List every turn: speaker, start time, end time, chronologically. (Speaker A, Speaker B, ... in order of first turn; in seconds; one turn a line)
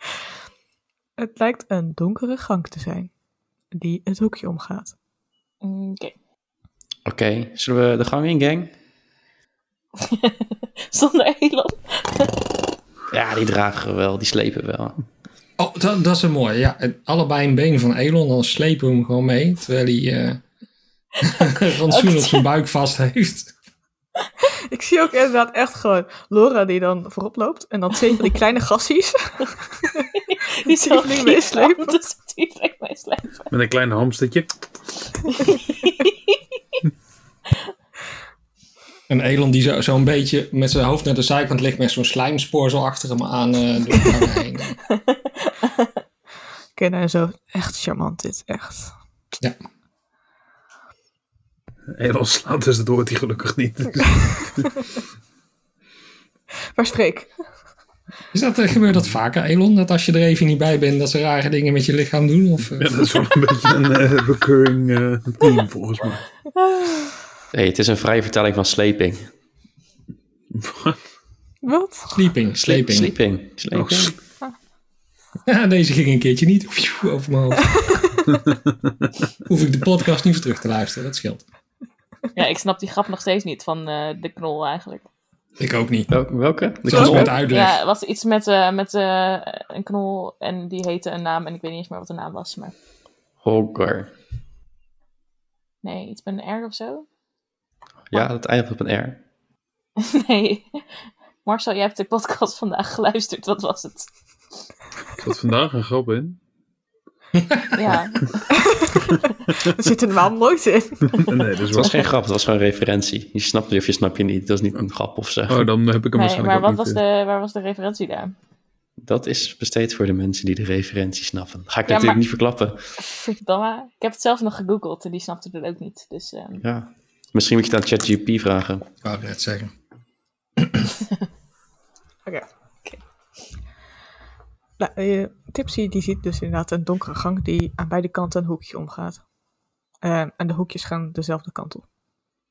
Speaker A: 1.2-3.1
Speaker A: 3.7-4.9
Speaker B: 5.6-6.1
Speaker C: 7.0-8.7
Speaker B: 10.0-12.3
Speaker C: 13.1-15.0
Speaker D: 15.6-20.4
Speaker D: 21.2-23.5
Speaker B: 21.9-22.4
Speaker A: 24.7-30.1
Speaker B: 30.2-33.5
Speaker A: 30.6-32.0
Speaker E: 33.5-34.6
Speaker B: 35.4-36.4
Speaker D: 39.1-44.8
Speaker B: 44.9-45.9
Speaker A: 46.8-48.9
Speaker E: 51.9-54.6
Speaker A: 56.8-57.3
Speaker D: 58.3-63.1
Speaker E: 62.7-66.3
Speaker C: 67.5-69.3
Speaker E: 70.5-71.0
Speaker A: 71.6-72.3
Speaker D: 72.1-73.2
Speaker C: 72.6-74.1
Speaker E: 73.7-74.2
Speaker D: 75.5-78.1
Speaker A: 77.8-78.1
Speaker E: 78.3-78.9
Speaker D: 79.5-81.4
Speaker B: 82.3-85.0
Speaker D: 85.6-86.1
Speaker C: 86.1-87.4
Speaker D: 86.8-87.8
Speaker A: 86.9-87.3
Speaker B: 87.5-92.7
Speaker C: 93.4-94.1
Speaker B: 95.8-97.0
Speaker C: 98.1-99.2
Speaker B: 100.0-104.1
Speaker E: 105.2-106.4
Speaker D: 107.4-107.8
Speaker B: 107.7-108.6
Speaker A: 108.5-111.4
Speaker E: 111.1-112.0
Speaker C: 111.7-115.7
Speaker E: 115.5-117.0
Speaker B: 116.1-118.3
Speaker C: 119.0-122.8
Speaker B: 121.9-122.2
Speaker B: 123.0-126.6
Speaker C: 126.6-128.9
Speaker D: 129.0-129.7
Speaker D: 130.6-130.9
Speaker A: 134.8-139.2
Speaker A: 140.0-141.8